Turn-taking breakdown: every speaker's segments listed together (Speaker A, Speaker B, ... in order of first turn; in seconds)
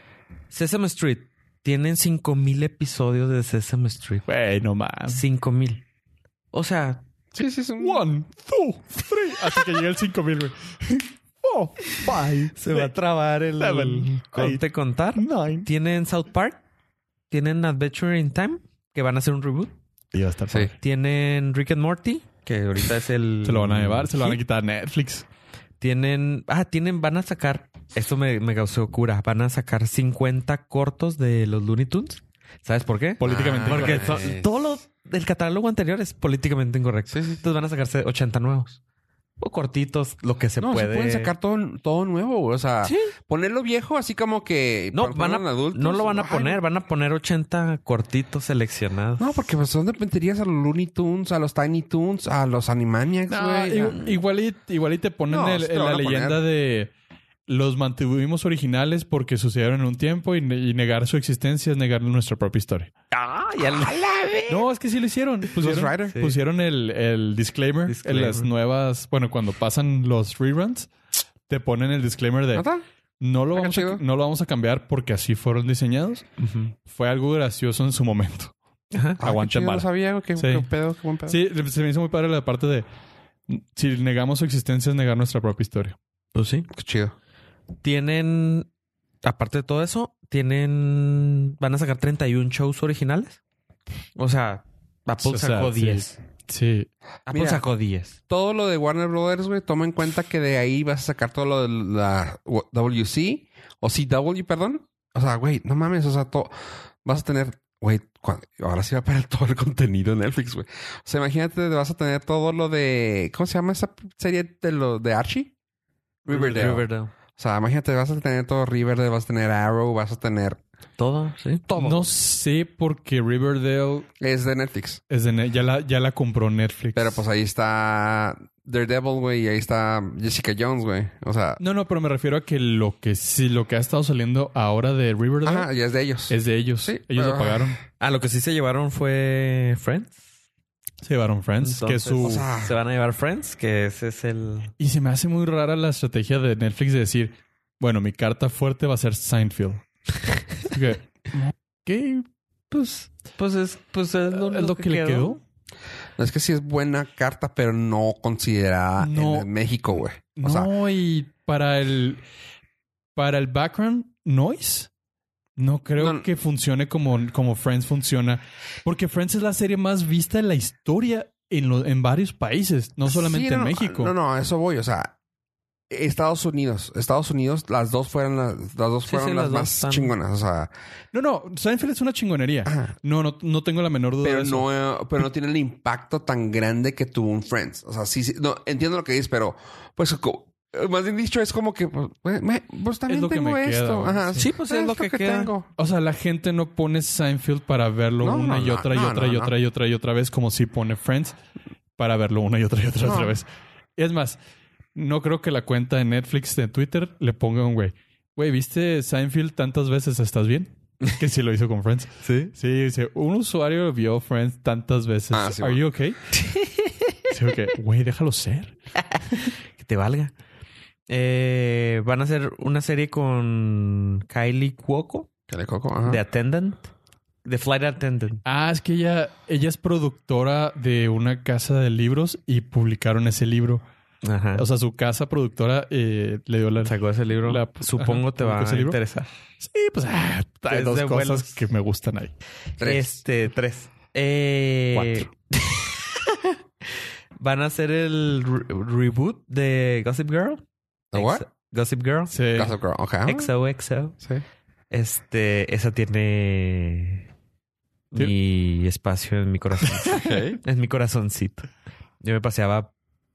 Speaker A: 0.5-4.2, 5.1-5.8, 6.5-7.0, 12.5-16.6, 17.3-19.7, 20.7-24.4, 25.8-38.8, 39.4-41.3, 42.8-43.1, 44.9-49.5, 53.9-54.1, 63.1-64.6, 66.1-66.3, 67.9-68.5, 76.4-76.7, 78.9-79.2, 86.3-86.7, 87.8-88.7, 89.2-93.4, 94.2-96.2, 97.3-98.2, 116.2-117.1, 121.0-122.1, 138.0-140.2, 141.6-144.7, 152.7-155.3, 179.0-180.1, 194.3-195.5, 212.2-212.5, 216.3-217.2, 219.0-220.3, 221.1-225.3, 226.0-226.9, 227.4-228.4, 234.2-234.7, 236.8-239.3, 240.7-241.6, 242.8-250.6, 251.1-252.3, 253.2-254.2, 254.9-257.2, 258.1-261.7, 262.2-262.9
Speaker B: 4.3-5.2, 7.8-12.9, 13.6-14.6, 15.1-15.7, 20.1-20.7, 23.4-25.2, 33.2-34.2, 53.3-56.9, 57.5-62.9, 64.5-70.9, 71.5-72.7, 73.2-76.2, 76.8-78.5, 79.2-80.7, 81.2-82.8, 83.5-86.0, 95.2-96.9, 121.8-124.1, 125.1-127.2, 131.6-135.7, 136.3-137.8, 141.0-142.5, 144.8-149.8, 150.6-152.3, 154.3-155.4, 159.0-159.5, 160.4-162.2, 163.1-164.9, 165.6-174.1, 181.1-184.7, 193.1-194.5, 195.8-201.3, 202.0-204.4, 204.9-216.2, 217.3-218.7, 228.4-233.8, 234.5-239.0, 239.6-242.3, 244.9-245.3, 252.3-252.7
Speaker C: 7.3-8.0, 33.2-34.5, 37.1-37.4, 40.6-46.6, 49.2-54.0, 55.3-56.4, 65.5-66.2, 72.5-72.8, 73.5-74.0, 79.2-81.4, 86.7-87.1, 97.3-97.6, 98.3-106.5, 107.0-115.5, 116.3-120.6, 124.2-125.0, 126.9-131.6, 135.4-137.8, 142.2-142.7, 156.2-160.7, 166.0-166.3, 173.1-175.1, 175.9-180.7, 182.7-182.9, 184.2-195.7, 198.2-199.5, 203.0-203.3, 215.3-215.8, 225.5-226.2, 242.8-243.1, 251.1-251.4, 252.5-253.5, 260.1-260.6